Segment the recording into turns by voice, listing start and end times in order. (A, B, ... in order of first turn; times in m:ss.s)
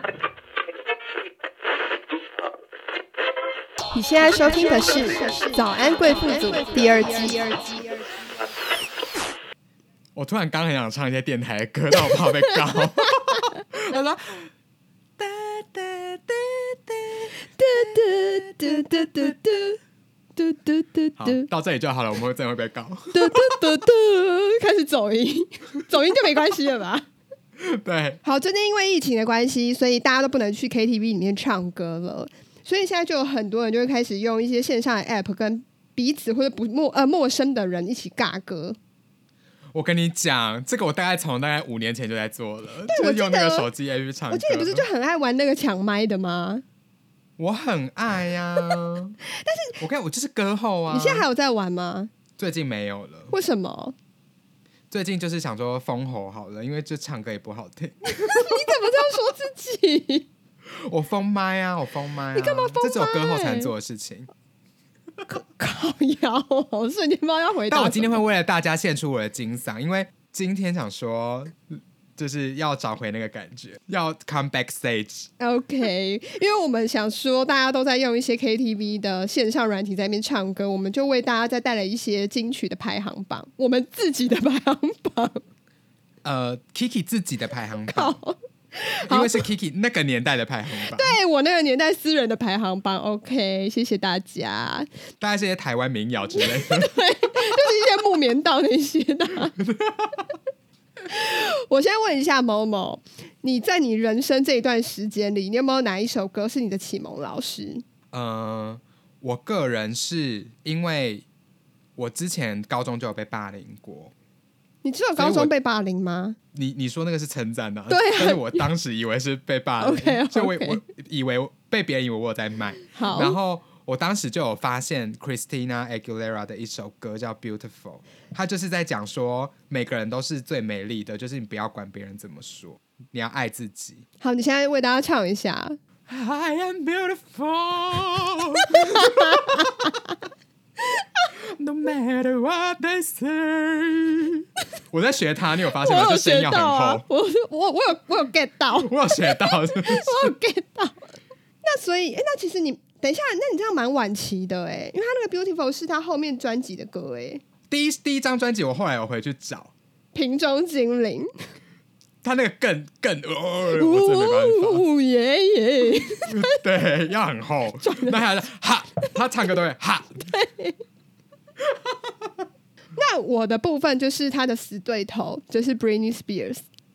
0:03.9-0:08.1 A
0:10.2-0:14.5 B
0:15.2-0:19.4 B
0:17.6-0:19.8 A
0:20.4-0:21.4 A
0:21.2-0:23.8 B
0:23.1-0:27.0 A
0:27.6-0:28.2 B
0:28.2-0:38.8 A
0:39.7-0:44.8 B
0:42.9-0:43.7 A
0:44.3-0:46.6 A
0:47.4-0:49.2 B
0:49.3-0:49.7 A
0:49.8-0:51.2 B
0:50.9-0:52.1 A
0:52.4-0:53.3 B
0:53.3-0:53.9 A
0:54.9-0:58.8 B
0:58.1-1:00.3 A
1:00.7-1:04.3 B
1:02.3-1:03.7 A
1:05.3-1:08.2 A
1:07.7-1:15.3 B
1:15.4-1:25.4 A
1:26.2-1:28.2 B
1:27.9-1:29.4 A
1:29.0-1:31.2 B
1:30.9-1:34.9 A
1:35.2-1:37.0 B
1:36.4-1:39.6 A
1:39.6-1:40.2 B
1:41.0-1:47.8 A
1:48.1-1:51.2 B
1:52.0-1:54.1 B
1:54.8-1:56.4 A
1:55.2-1:55.5 B
1:56.5-2:14.0 B
1:57.9-1:58.7 A
1:59.8-2:00.8 A
2:02.9-2:03.4 A
2:14.2-2:15.8 A
2:16.1-2:20.0 B
2:18.9-2:19.7 A
2:21.4-2:27.0 B
2:25.8-2:31.1 A
2:28.8-2:30.3 B
2:31.6-2:37.4 A
2:37.7-2:39.7 B
2:40.1-2:41.3 A
2:42.2-2:44.8 B
2:43.7-2:46.4 A
2:46.3-2:50.3 B
2:47.8-2:48.2 A
2:50.3-2:50.8 A
2:51.7-2:52.3 B
2:52.9-2:56.6 A